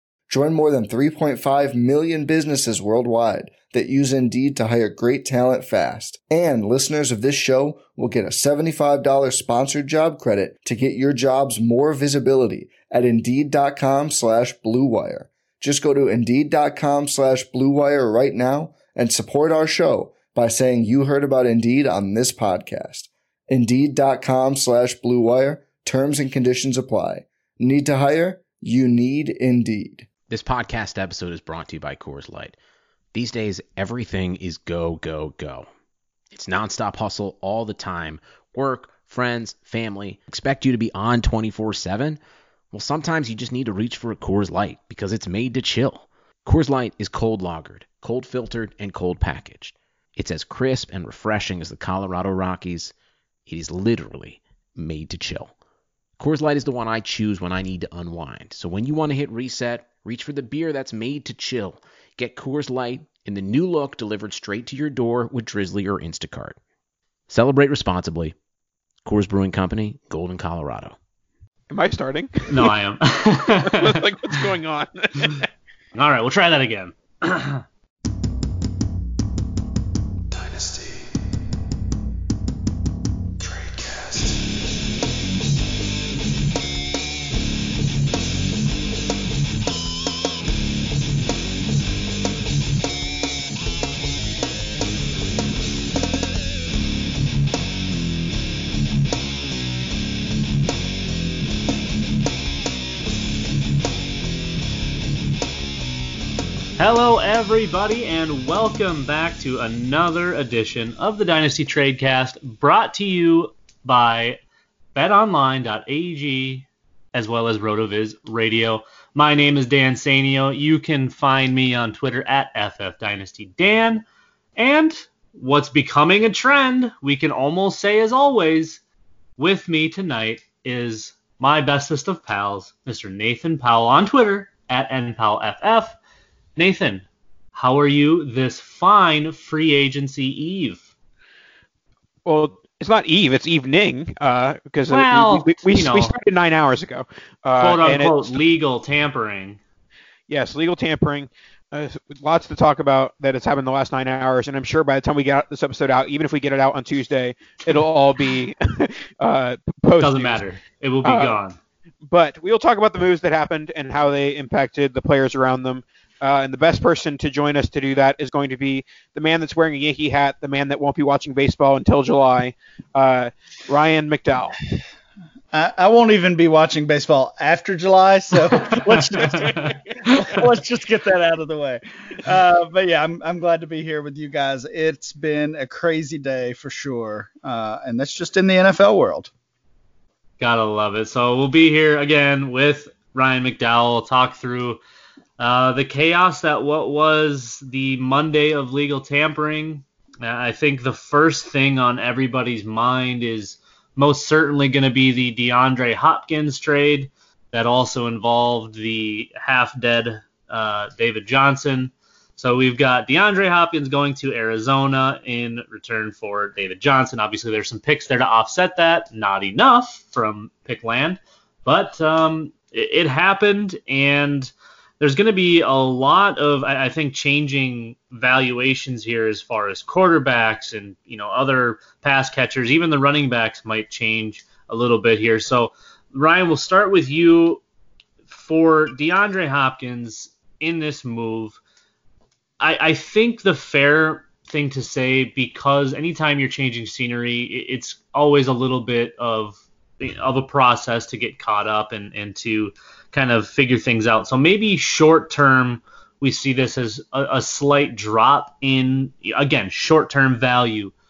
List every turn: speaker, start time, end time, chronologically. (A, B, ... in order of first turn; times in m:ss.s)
0:00.3-0:30.1 A
0:30.3-0:32.6 B
0:33.1-0:35.7 B
0:36.3-0:42.2 B
0:42.7-0:52.9 B
0:53.5-0:55.5 B
0:56.2-1:06.6 B
1:07.3-1:08.4 B
1:09.0-1:11.0 B
1:11.7-1:12.7 C
1:12.5-1:14.0 D
1:13.6-1:15.5 C
1:15.9-1:17.6 D
1:20.3-1:21.1 B
1:23.4-1:24.4 B
1:46.8-1:54.4 D
1:55.0-2:04.0 D
2:04.6-2:08.8 D
2:09.4-2:16.0 D
2:16.6-2:20.8 D
2:22.2-2:28.3 C
2:24.9-2:26.1 D
2:27.6-2:29.6 D
2:30.3-2:40.4 C
2:40.0-2:41.6 D
2:41.0-2:41.4 C
2:42.1-2:54.6 C
2:55.5-3:09.3 E
2:59.2-2:59.7 C
2:59.3-2:59.6 D
3:10.4-3:14.8 D
3:15.4-3:57.6 D
3:58.3-4:01.6 D
4:02.6-4:20.9 D